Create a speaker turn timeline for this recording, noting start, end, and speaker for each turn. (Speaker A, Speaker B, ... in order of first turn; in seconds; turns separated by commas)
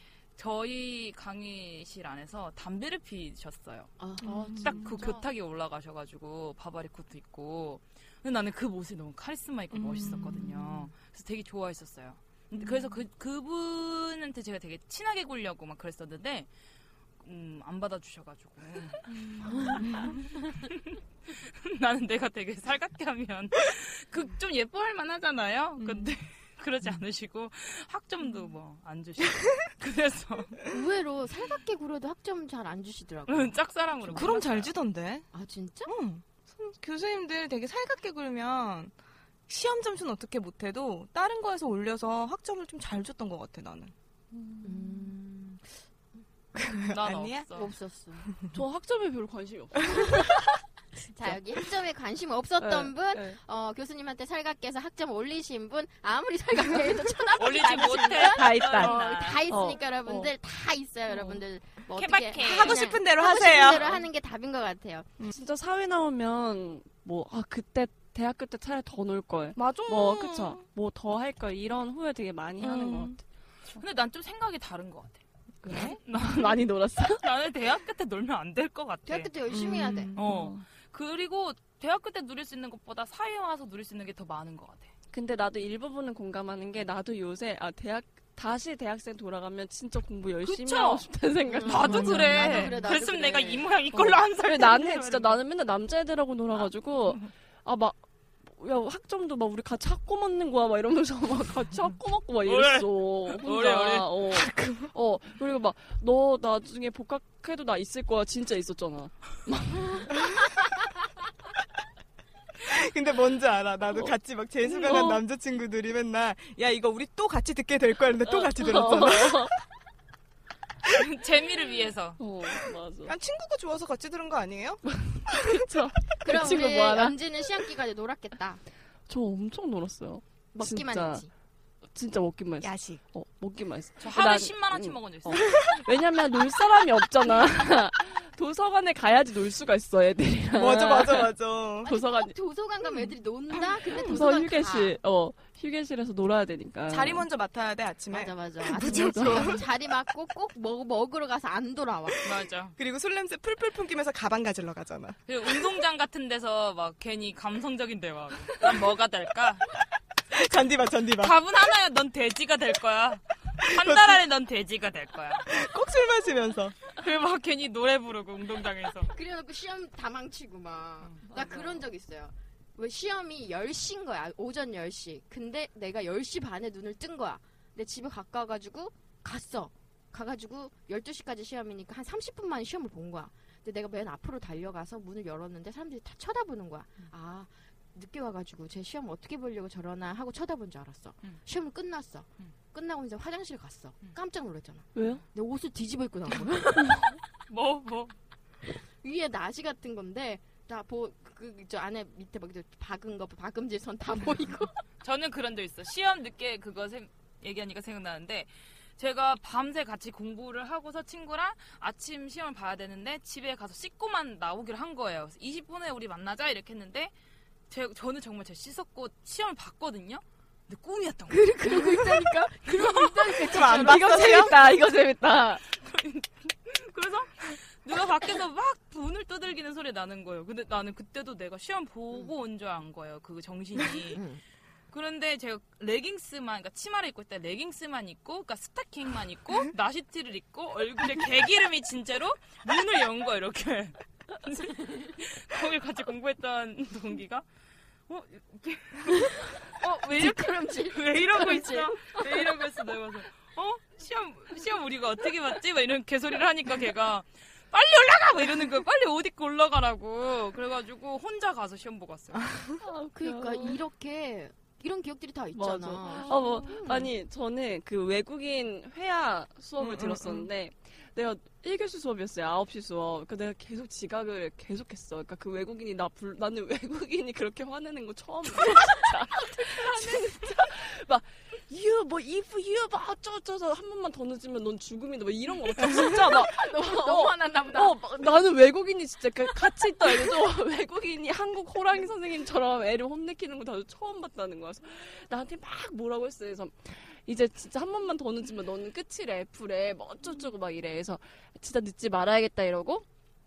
Speaker A: 0.3-3.9, Speaker B: 4.0-4.6, Speaker C: 4.2-5.0, Speaker D: 4.2-5.2, Speaker A: 4.6-16.5, Speaker C: 9.7-10.9, Speaker A: 17.2-30.6, Speaker C: 19.9-20.1, Speaker B: 30.7-34.3, Speaker A: 33.3-34.7, Speaker C: 34.1-35.3, Speaker B: 35.3-35.9, Speaker C: 35.9-38.9, Speaker C: 39.5-43.9, Speaker B: 44.6-45.8, Speaker C: 46.5-47.5, Speaker A: 46.9-47.7, Speaker B: 47.5-48.3, Speaker D: 48.5-50.3, Speaker B: 51.0-65.1, Speaker D: 52.6-53.4, Speaker A: 57.4-59.4, Speaker D: 58.1-58.9, Speaker D: 59.5-60.3, Speaker D: 61.1-61.4, Speaker A: 61.9-62.8, Speaker C: 62.4-64.0, Speaker D: 65.3-73.2, Speaker C: 69.5-70.6, Speaker C: 72.6-73.2, Speaker A: 73.8-79.3, Speaker D: 75.6-77.2, Speaker C: 75.7-76.0, Speaker B: 79.0-80.1, Speaker C: 79.5-80.5, Speaker A: 80.2-84.9, Speaker D: 80.2-80.6, Speaker D: 85.1-92.9, Speaker A: 90.4-91.1, Speaker B: 91.5-93.7, Speaker A: 91.6-95.4, Speaker D: 93.9-110.1, Speaker A: 102.4-104.1, Speaker C: 104.3-104.9, Speaker C: 112.7-119.5, Speaker D: 113.9-115.2, Speaker D: 118.2-119.5, Speaker A: 120.8-122.2, Speaker D: 122.2-123.1, Speaker C: 123.0-125.6, Speaker D: 124.8-127.2, Speaker B: 126.2-128.6, Speaker D: 129.1-131.2, Speaker B: 130.5-131.3, Speaker D: 131.9-141.3, Speaker C: 132.6-133.0, Speaker A: 134.0-135.7, Speaker C: 140.5-141.9, Speaker D: 141.8-142.3, Speaker B: 141.8-145.0, Speaker C: 143.9-144.2, Speaker D: 143.9-147.2, Speaker C: 146.9-149.6, Speaker B: 148.1-152.2, Speaker D: 148.9-149.6, Speaker A: 152.2-152.7, Speaker C: 152.8-155.2, Speaker A: 155.3-159.6, Speaker C: 160.3-161.3, Speaker A: 161.2-165.5, Speaker C: 165.4-166.7, Speaker A: 166.9-169.1, Speaker B: 169.1-197.2, Speaker A: 171.0-171.8, Speaker D: 194.9-195.2, Speaker A: 197.5-198.2, Speaker B: 199.0-204.8, Speaker A: 205.0-217.1, Speaker A: 217.7-221.6, Speaker B: 221.3-224.6, Speaker C: 223.4-224.5, Speaker D: 223.4-225.6, Speaker A: 225.8-234.2, Speaker B: 234.1-234.4, Speaker A: 234.9-247.4, Speaker A: 248.1-262.5, Speaker B: 249.8-252.4, Speaker C: 262.4-262.7, Speaker D: 262.8-263.8, Speaker B: 263.1-267.1, Speaker D: 265.5-303.1, Speaker C: 269.8-270.5, Speaker B: 285.9-288.0